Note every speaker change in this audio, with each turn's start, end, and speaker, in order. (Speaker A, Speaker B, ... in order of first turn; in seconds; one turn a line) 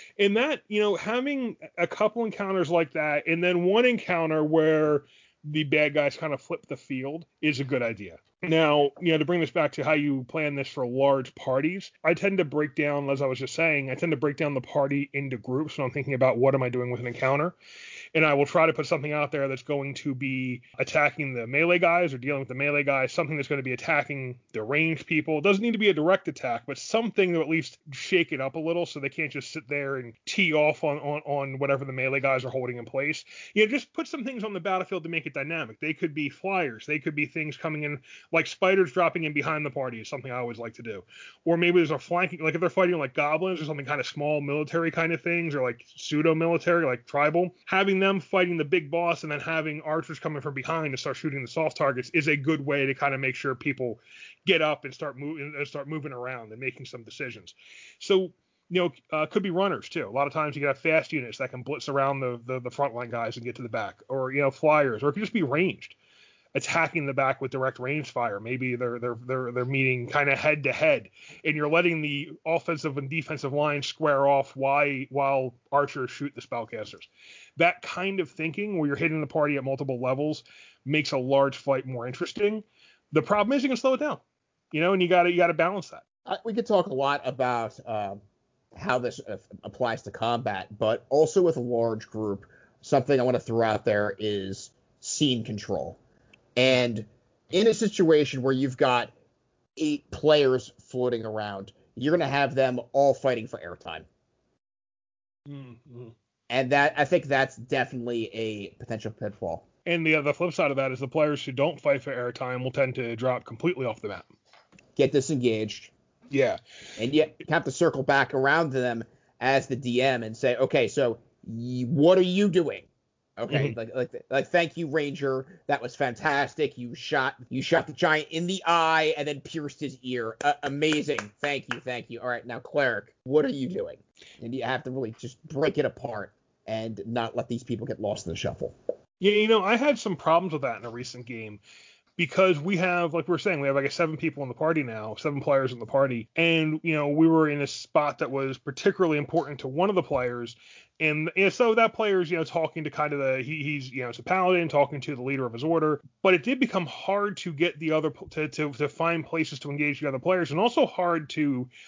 Speaker A: 0.2-17.5
Speaker A: 18.1-65.9
Speaker A: 66.5-86.0
Speaker B: 86.2-88.2
Speaker B: 88.7-96.0
Speaker B: 96.5-99.1
Speaker B: 99.8-104.0
Speaker A: 105.5-106.1
Speaker B: 106.5-109.6
Speaker A: 109.8-114.3
Speaker B: 115.0-115.9
Speaker A: 116.3-116.6
Speaker B: 117.0-122.9
Speaker B: 123.4-138.7
Speaker A: 123.5-123.7
Speaker A: 139.2-141.6
Speaker A: 142.2-161.7